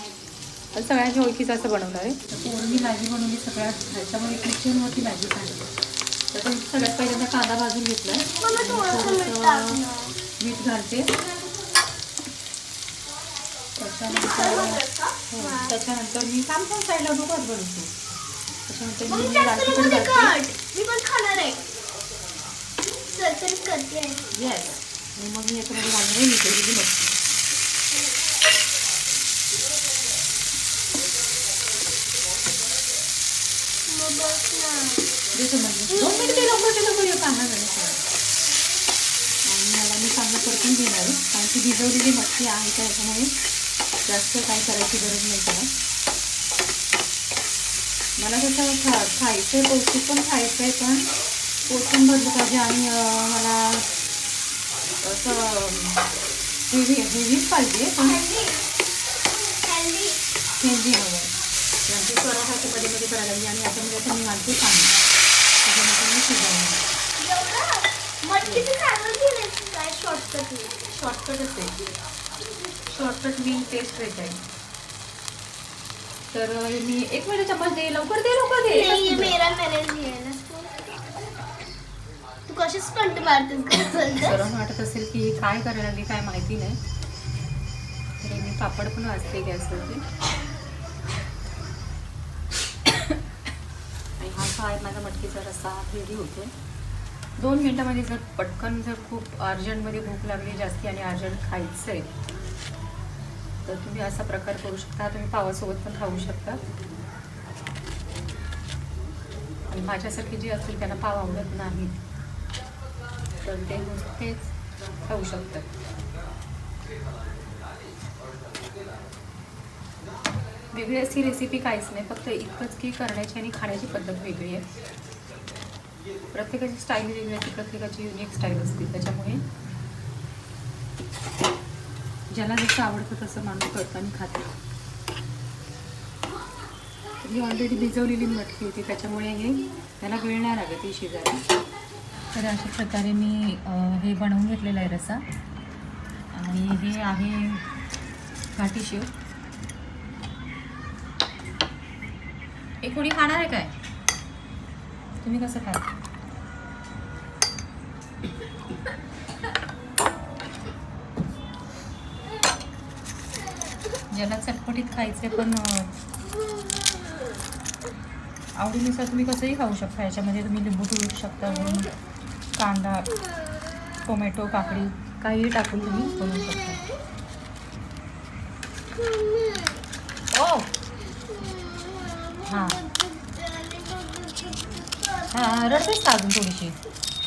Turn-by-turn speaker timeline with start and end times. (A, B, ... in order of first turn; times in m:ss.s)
0:00.7-0:05.7 A
0:06.3-0:09.8 A
0:08.3-0:10.2 B
0:10.4-0:11.1 A
0:13.8-0:17.9 A
0:14.0-0:15.8 B
0:18.7-0:20.4 A
0:19.0-0:21.6 B
0:23.0-0:24.2 B
0:24.3-0:27.2 A
0:33.9-0:35.1 B
0:35.3-0:38.0 A
0:35.9-0:36.7 B
0:39.4-0:43.3 A
0:44.0-0:45.7 A
0:48.2-0:51.1 A
0:51.6-0:53.8 A
0:55.0-0:56.1 A
0:56.7-0:58.2 A
0:58.0-0:58.6 B
0:59.3-1:00.2 B
1:00.6-1:01.3 A
1:01.8-1:05.0 A
1:05.6-1:06.8 A
1:07.2-1:10.8 B
1:08.4-1:08.7 A
1:10.9-1:11.7 A
1:12.8-1:14.4 A
1:16.3-1:19.4 A
1:18.7-1:20.7 B
1:22.5-1:24.4 B
1:24.2-1:26.8 A
1:28.2-1:30.0 A
1:34.2-1:36.5 A
1:37.4-1:42.1 A
1:43.6-1:46.6 A
1:49.7-1:52.0 A
1:53.4-1:55.7 A
2:00.7-2:04.7 A
2:06.3-2:09.4 A
2:12.3-2:14.5 A
2:17.2-2:21.4 A
2:22.3-2:25.2 A
2:26.3-2:27.6 A
2:28.5-2:29.1 A
2:32.8-2:33.7 A
2:35.2-2:35.9 A
2:44.1-2:45.9 A
2:48.6-2:51.9 A
2:52.6-2:53.1 A
2:54.0-2:56.8 A
2:59.2-2:59.7 B
3:00.3-3:00.7 A
3:01.3-3:05.9 B
3:02.4-3:02.8 A
3:05.3-3:06.8 A